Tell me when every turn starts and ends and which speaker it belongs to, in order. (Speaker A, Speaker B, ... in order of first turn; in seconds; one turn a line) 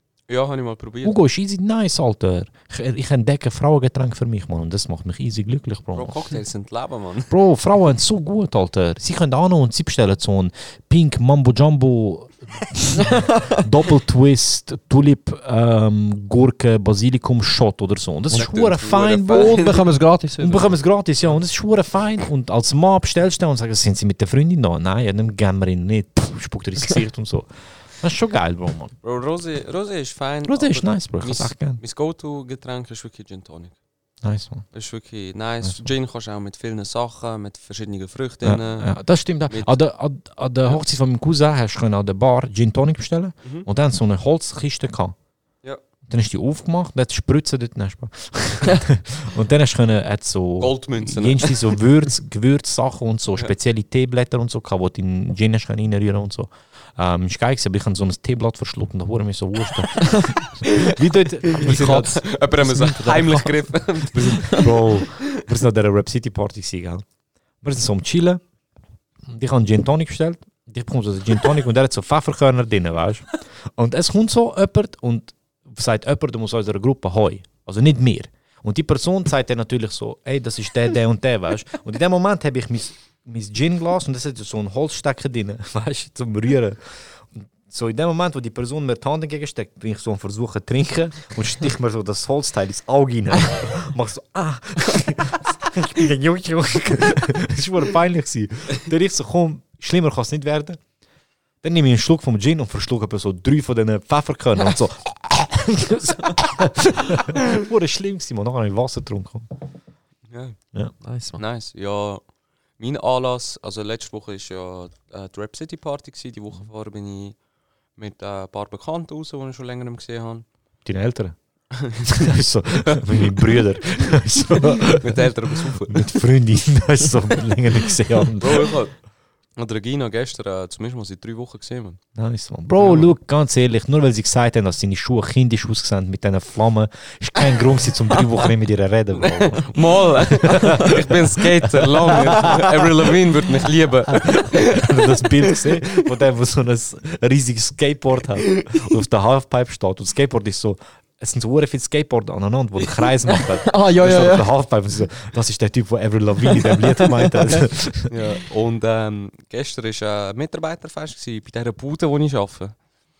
Speaker A: 0.3-1.2
Speaker B: 1.0-6.4
Speaker A: 5.9-7.3
Speaker B: 7.3-19.8
Speaker C: 12.9-13.6
Speaker A: 18.3-19.8
Speaker C: 19.3-20.8
Speaker B: 20.4-28.9
Speaker A: 29.0-33.7
Speaker B: 30.5-31.8
Speaker B: 34.2-34.6
Speaker A: 34.7-38.9
Speaker B: 38.4-45.1
Speaker A: 39.5-39.8
Speaker B: 46.1-62.2
Speaker A: 50.6-51.8
Speaker C: 60.0-60.3
Speaker A: 61.5-65.3
Speaker C: 61.5-63.5
Speaker B: 64.1-67.0
Speaker C: 64.2-64.6
Speaker B: 67.6-68.4
Speaker B: 69.3-86.8
Speaker B: 87.3-100.8
Speaker B: 101.6-109.5
Speaker A: 110.3-110.6
Speaker C: 111.0-111.4
Speaker A: 111.4-112.2
Speaker A: 112.8-117.4
Speaker A: 118.0-120.4
Speaker B: 120.8-121.3
Speaker A: 121.8-122.1
Speaker B: 121.9-128.8
Speaker A: 124.9-126.1
Speaker A: 128.4-128.9
Speaker A: 129.6-132.0
Speaker B: 132.1-143.1
Speaker A: 132.8-133.1
Speaker A: 139.1-145.8
Speaker B: 144.1-158.1
Speaker C: 153.3-154.5
Speaker A: 158.1-162.7